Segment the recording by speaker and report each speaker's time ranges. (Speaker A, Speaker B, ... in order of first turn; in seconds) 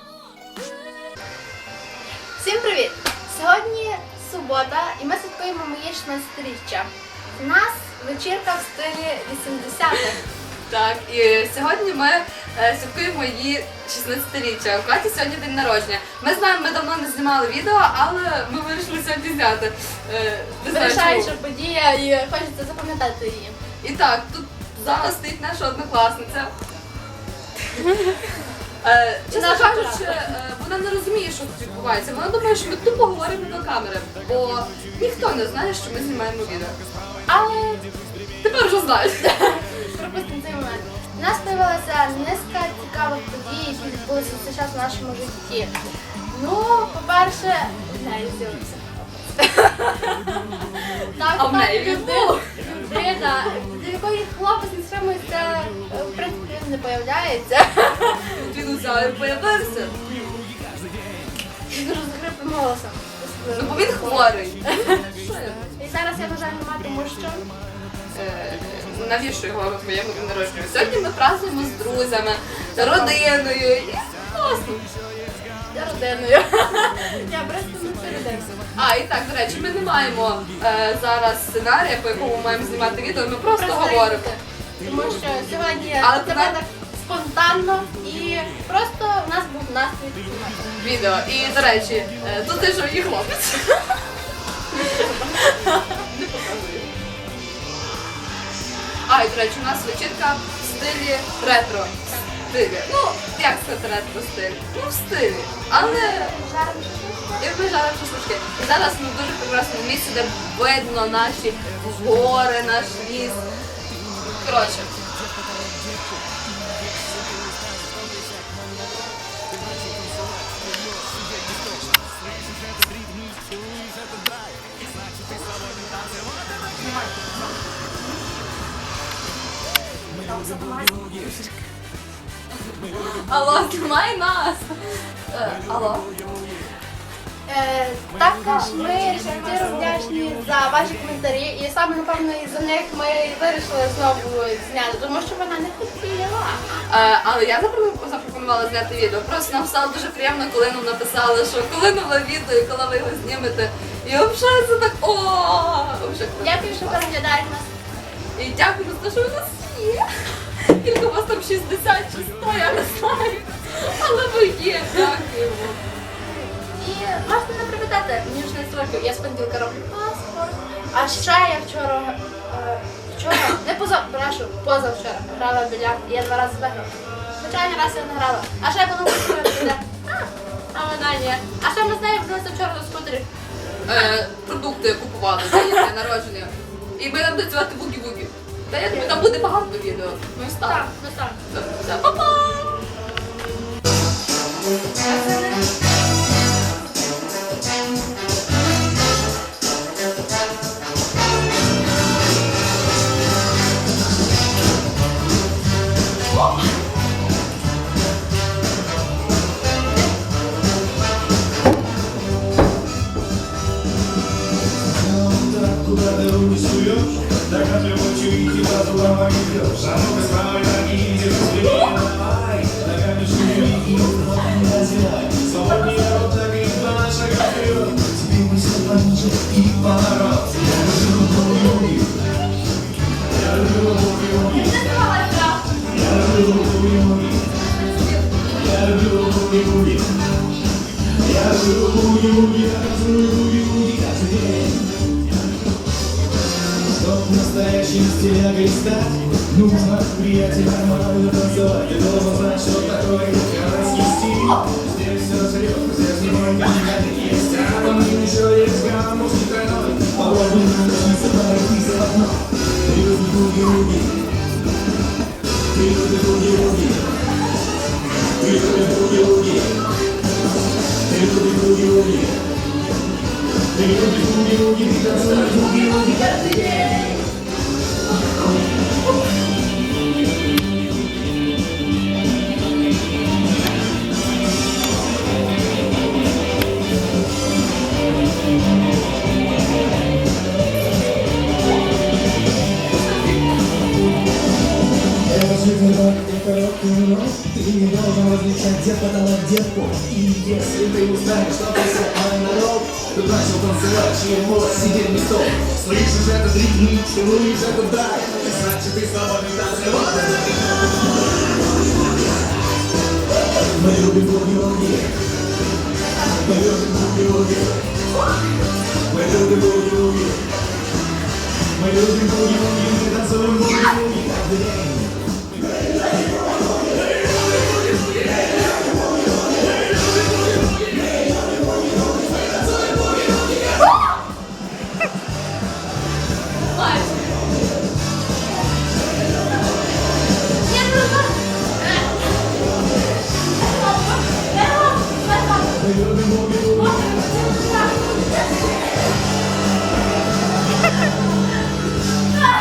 Speaker A: 2.4-10.2, 20.6-23.6, 27.7-28.2, 29.3-30.2, 37.3-37.8, 39.9-45.7, 46.3-49.4, 50.8-58.4, 61.7-65.0, 65.8-67.5, 72.7-73.2, 75.7-78.5, 83.5-90.8, 94.7-95.9, 105.7-107.6, 130.2-131.3, 137.5-146.7, 156.4-157.7, 166.7-183.3, 188.9-189.3, 190.6-191.4, 234.4-235.8, 340.6-342.3, 343.6-345.8, 346.8-348.1
Speaker B: 10.7-21.3, 23.8-26.5, 28.8-36.8, 38.4-39.6, 51.3-52.4, 58.3-60.0, 63.5-65.7, 68.1-74.8, 78.7-84.3, 86.0-86.5, 90.8-94.0, 94.7-96.9, 99.0-101.9, 102.5-106.3, 107.4-113.5, 114.2-114.9, 132.7-136.1, 146.9-157.0, 158.3-165.8, 183.8-190.8, 191.5-192.9, 195.0-195.6, 237.8-238.2, 275.0-277.2, 336.8-337.1
Speaker C: 115.4-116.4, 117.8-118.3, 119.7-127.1, 130.2-131.4, 214.8-232.1, 233.3-234.7, 235.8-237.5, 238.5-240.2, 241.1-244.8, 246.9-264.1, 265.7-267.0, 268.4-269.7, 271.1-272.4, 273.7-276.3, 295.2-310.6, 313.7-315.1, 316.3-317.8, 319.1-320.4, 321.7-325.1, 345.8-347.1